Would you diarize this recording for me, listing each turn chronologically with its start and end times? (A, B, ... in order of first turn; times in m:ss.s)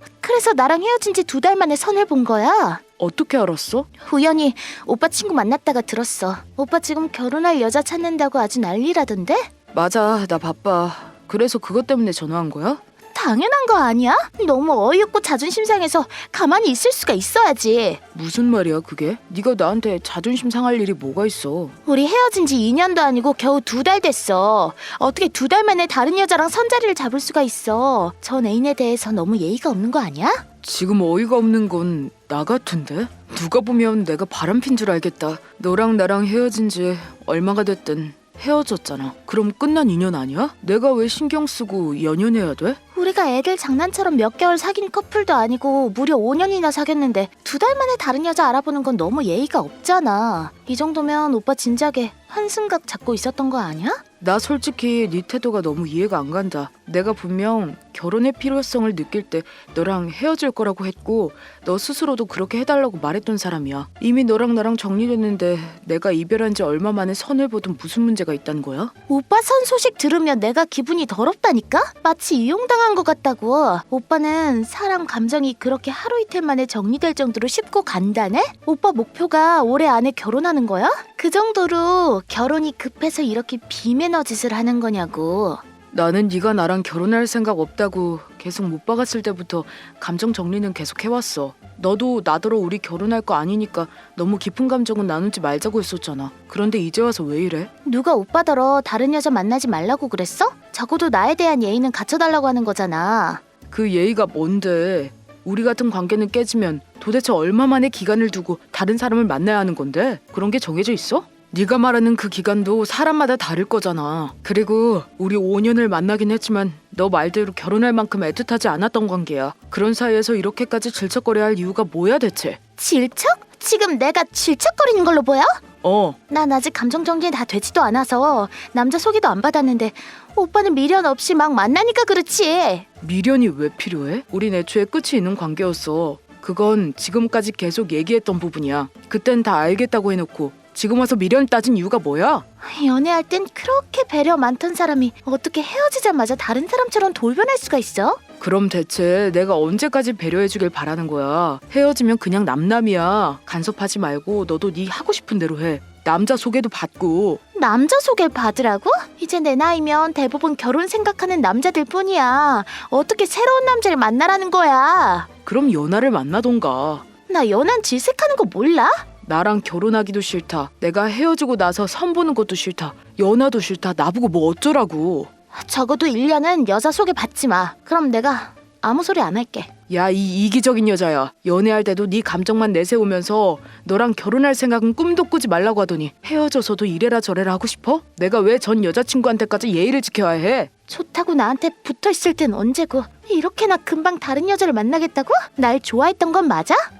0:00.2-0:02.8 A
0:03.0-0:03.9 B
0:04.0-0:09.5 A
0:09.7-0:12.8 B
0:13.1-0:18.0 A
0:18.1-0:21.8 B
0:21.9-0:30.4 A
0:30.6-0:42.8 B
0:42.9-0:54.0 A
0:54.2-1:08.9 B
1:09.1-1:25.6 A
1:25.9-1:37.7 B
1:37.8-1:43.4 A
1:43.7-2:02.6 B
2:02.8-2:05.6 A
2:05.8-2:06.2 B
2:06.3-2:12.9 A
2:13.0-2:22.4 B
2:22.6-2:28.2 A
2:28.4-2:37.4 B
2:37.5-2:45.3 A
2:45.5-2:47.1 B
2:47.3-2:49.0 A
2:49.2-2:55.3 B
2:55.5-2:59.7 A
2:59.9-3:10.7 B
3:10.9-3:16.8 A